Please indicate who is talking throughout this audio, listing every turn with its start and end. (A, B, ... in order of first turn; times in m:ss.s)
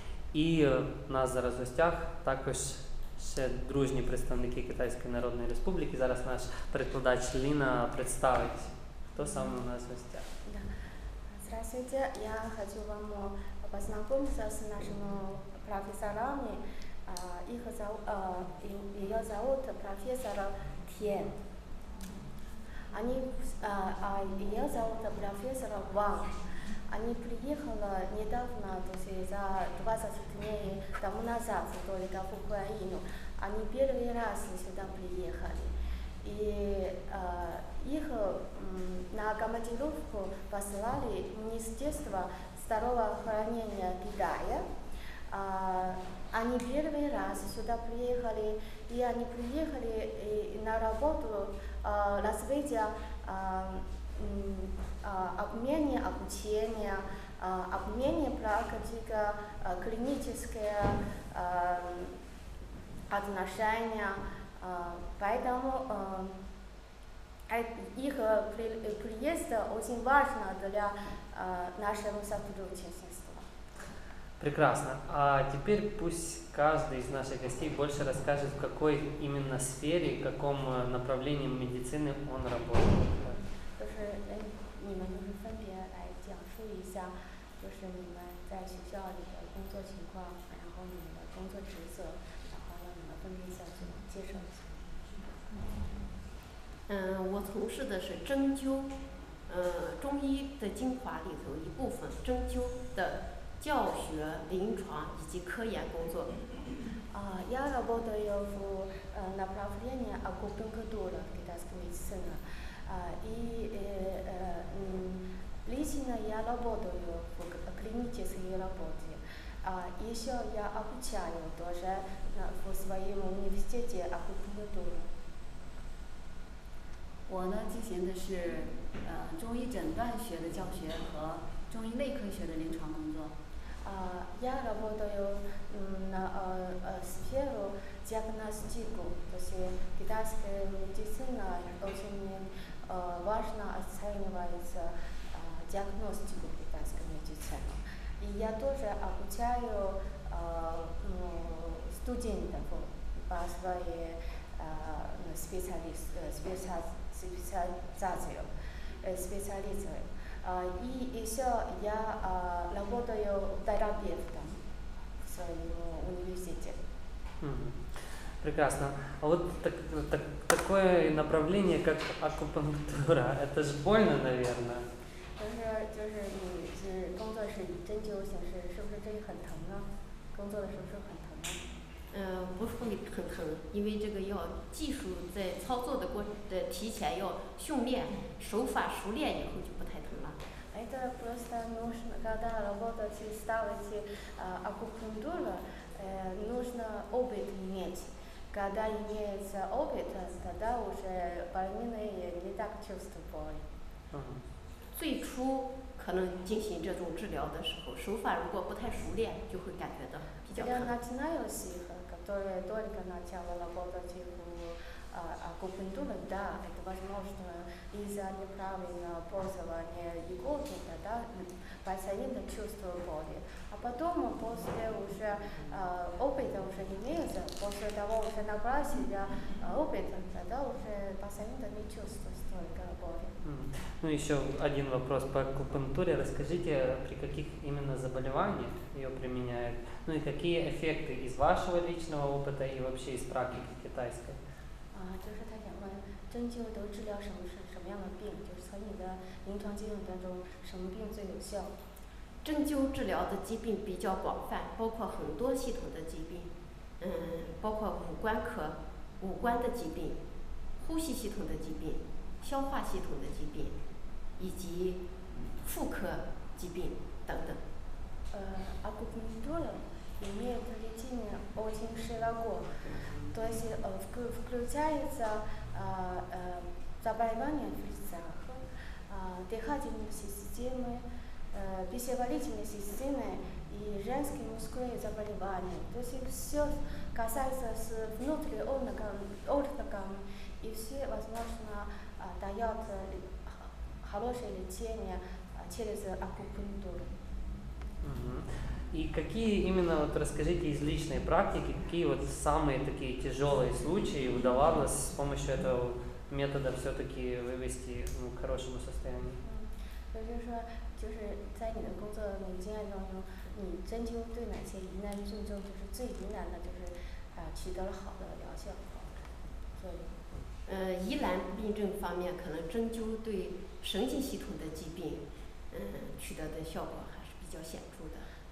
0:00.3-0:10.3 A
0:11.3-0:21.3 B
0:22.9-0:44.7 B
0:45.3-1:02.2 B
1:03.1-1:06.4 B
1:07.5-1:13.4 B
1:14.4-1:23.4 A
1:23.8-1:34.7 B
1:36.9-1:46.5 C
1:47.1-2:05.1 B
2:07.3-2:13.3 D
2:13.8-2:38.5 B
2:39.0-2:44.6 B
2:45.2-2:46.8 B
2:47.4-2:47.8 A
2:48.4-2:54.9 A
2:55.4-3:01.6 B
3:02.1-3:10.4 C
3:10.7-3:23.6 B
3:24.1-3:24.4 A
3:25.0-3:30.9 C
3:30.5-3:53.4 B
3:53.4-4:04.4 A
4:04.9-4:11.7 B
4:12.4-4:20.2 C
4:20.8-4:23.8 C
4:24.4-4:27.6 C
4:28.3-4:57.1 B
4:58.0-5:09.4 A
5:09.4-5:19.1 B
5:19.8-5:20.1 B
5:20.7-5:28.3 C